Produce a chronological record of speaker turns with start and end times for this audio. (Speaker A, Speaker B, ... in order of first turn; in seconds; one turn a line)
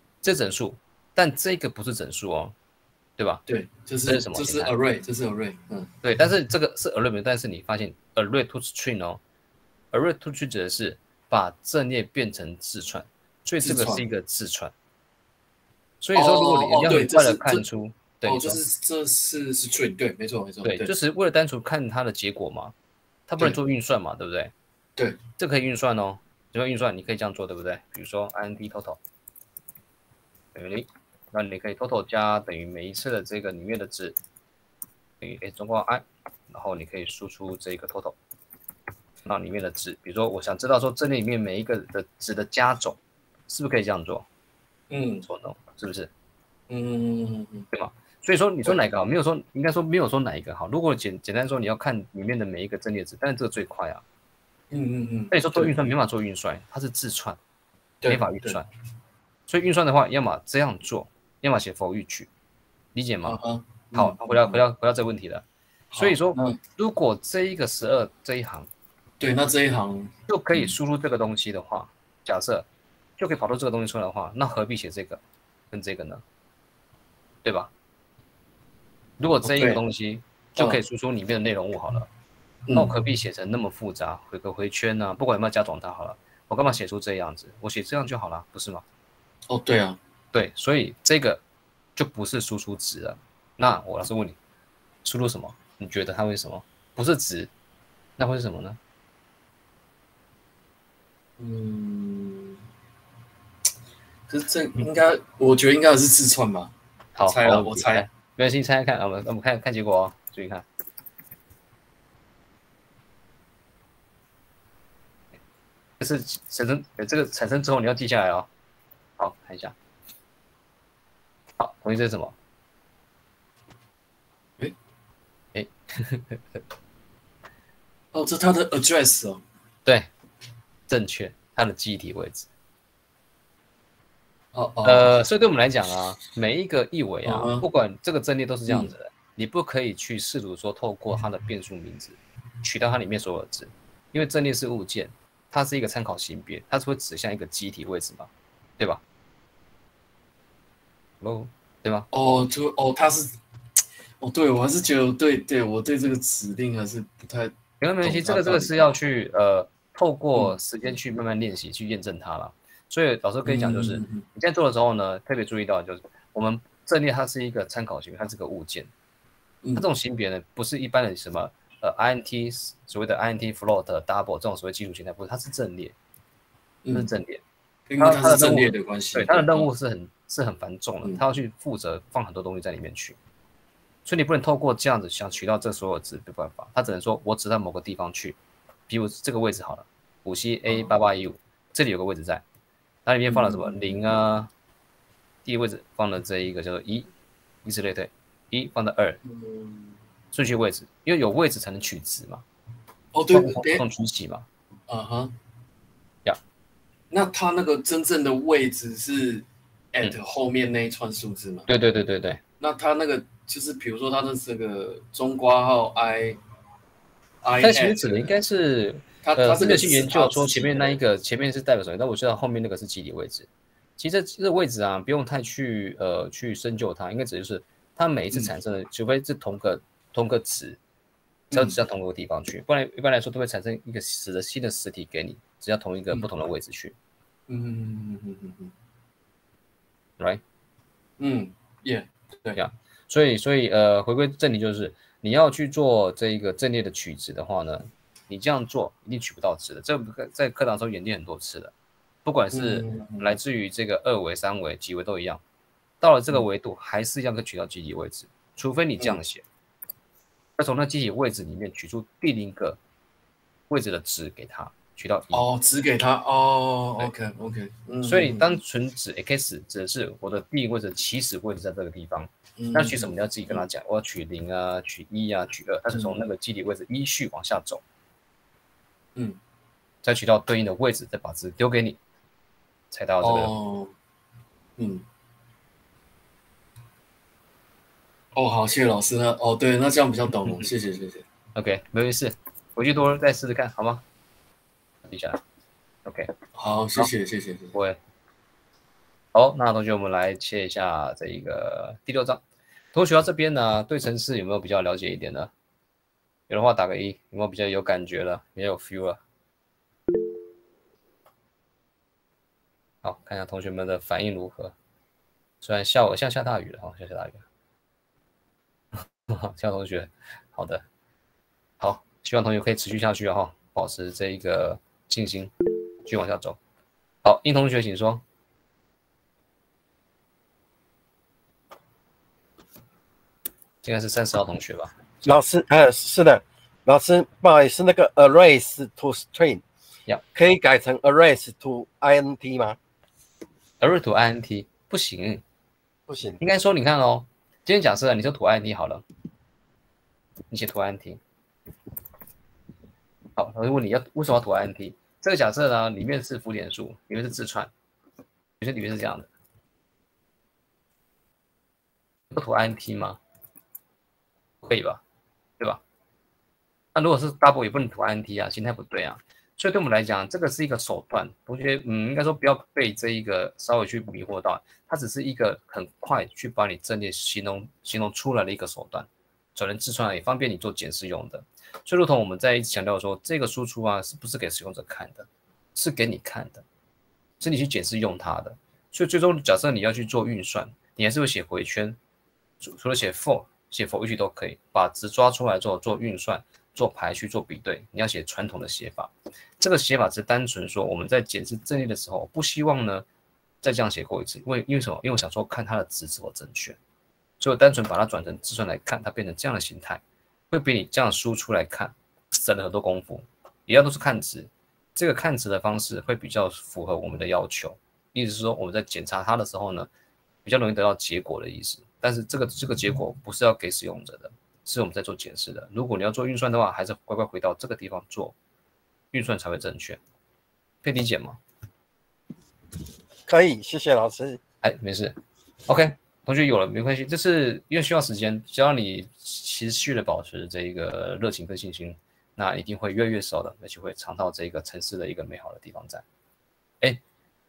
Speaker A: 0.2-2.5
Speaker B: 3.5-5.9
Speaker A: 4.1-4.7
Speaker A: 6.0-9.2
Speaker A: 9.9-14.7
Speaker B: 13.6-14.0
Speaker A: 16.0-18.6
Speaker B: 16.1-17.6
Speaker B: 18.2-20.9
Speaker A: 20.6-22.7
Speaker A: 23.3-24.5
Speaker B: 25.0-25.2
Speaker A: 25.4-29.0
Speaker A: 30.5-34.2
Speaker A: 35.2-38.1
Speaker A: 39.2-43.0
Speaker A: 43.5-44.2
Speaker B: 44.9-45.3
Speaker A: 45.2-46.1
Speaker B: 46.7-47.7
Speaker A: 47.7-54.0
Speaker B: 54.7-55.8
Speaker A: 55.3-57.4
Speaker B: 58.0-58.6
Speaker A: 58.1-58.7
Speaker A: 59.5-62.3
Speaker A: 62.9-63.4
Speaker B: 63.2-64.6
Speaker A: 63.9-68.7
Speaker B: 65.9-66.6
Speaker B: 69.2-70.7
Speaker A: 70.3-72.7
Speaker A: 73.2-76.2
Speaker A: 77.4-77.7
Speaker A: 79.2-82.1
Speaker B: 79.4-79.8
Speaker B: 82.7-82.9
Speaker A: 82.7-88.8
Speaker B: 89.5-90.0
Speaker A: 90.3-91.4
Speaker A: 92.0-94.4
Speaker A: 95.0-97.5
Speaker A: 98.2-98.8
Speaker B: 101.4-102.6
Speaker B: 104.3-108.0
Speaker A: 107.2-110.7
Speaker A: 116.0-118.5
Speaker A: 119.2-119.7
Speaker A: 121.6-122.3
Speaker A: 125.5-126.6
Speaker B: 128.1-129.4
Speaker A: 130.9-132.5
Speaker B: 134.5-135.1
Speaker A: 134.8-149.0
Speaker B: 137.2-137.6
Speaker B: 138.7-138.9
Speaker A: 151.2-152.1
Speaker B: 152.1-153.3
Speaker B: 154.2-158.9
Speaker A: 157.8-168.9
Speaker B: 163.4-164.2
Speaker A: 169.8-175.9
Speaker B: 176.8-177.1
Speaker A: 176.9-177.4
Speaker B: 177.9-179.7
Speaker A: 178.0-183.2
Speaker A: 184.1-188.4
Speaker A: 188.9-192.4
Speaker B: 190.7-191.0
Speaker A: 193.1-194.5
Speaker B: 193.3-194.0
Speaker A: 195.4-197.1
Speaker A: 197.6-199.2
Speaker B: 199.2-200.0
Speaker A: 200.3-202.4
Speaker B: 203.1-203.8
Speaker A: 203.3-204.5
Speaker B: 204.9-205.3
Speaker B: 207.1-211.7
Speaker A: 211.7-212.4
Speaker B: 212.6-216.4
Speaker B: 217.4-218.3
Speaker A: 217.6-230.8
Speaker B: 219.2-221.0
Speaker A: 231.5-236.9
Speaker B: 237.5-238.7
Speaker B: 241.2-242.6
Speaker A: 242.5-251.7
Speaker A: 252.2-255.4
Speaker B: 252.5-253.3
Speaker A: 256.0-259.4
Speaker A: 260.6-262.8
Speaker A: 263.7-265.4
Speaker B: 265.3-268.6
Speaker A: 268.0-277.8
Speaker B: 272.6-273.6
Speaker B: 275.9-276.1
Speaker A: 280.0-282.0
Speaker A: 282.9-283.5
Speaker B: 283.2-283.9
Speaker B: 284.8-285.0
Speaker B: 288.3-291.2
Speaker A: 291.5-294.0
Speaker A: 295.0-295.4
Speaker A: 296.0-296.3
Speaker B: 296.5-297.7
Speaker A: 297.7-298.0
Speaker A: 299.3-302.4
Speaker A: 302.9-305.5
Speaker A: 306.5-309.2
Speaker A: 313.0-314.7
Speaker A: 315.6-317.4
Speaker A: 318.9-320.8
Speaker A: 321.8-325.5
Speaker A: 326.1-326.6
Speaker A: 327.2-328.2
Speaker A: 333.8-334.9
Speaker C: 335.2-339.6
Speaker C: 340.3-342.8
Speaker A: 343.8-345.4
Speaker C: 346.1-346.4
Speaker A: 346.4-349.0
Speaker A: 350.5-351.2
Speaker A: 353.4-357.7
Speaker A: 358.6-359.3
Speaker A: 362.3-363.2
Speaker A: 364.6-365.0
Speaker A: 366.9-386.6
Speaker A: 387.4-392.0
Speaker A: 392.6-403.0
Speaker A: 403.6-406.8
Speaker A: 407.4-419.9
Speaker A: 420.4-428.3
Speaker A: 429.1-430.0
Speaker A: 430.8-431.4
Speaker C: 433.3-434.4
Speaker A: 434.6-446.0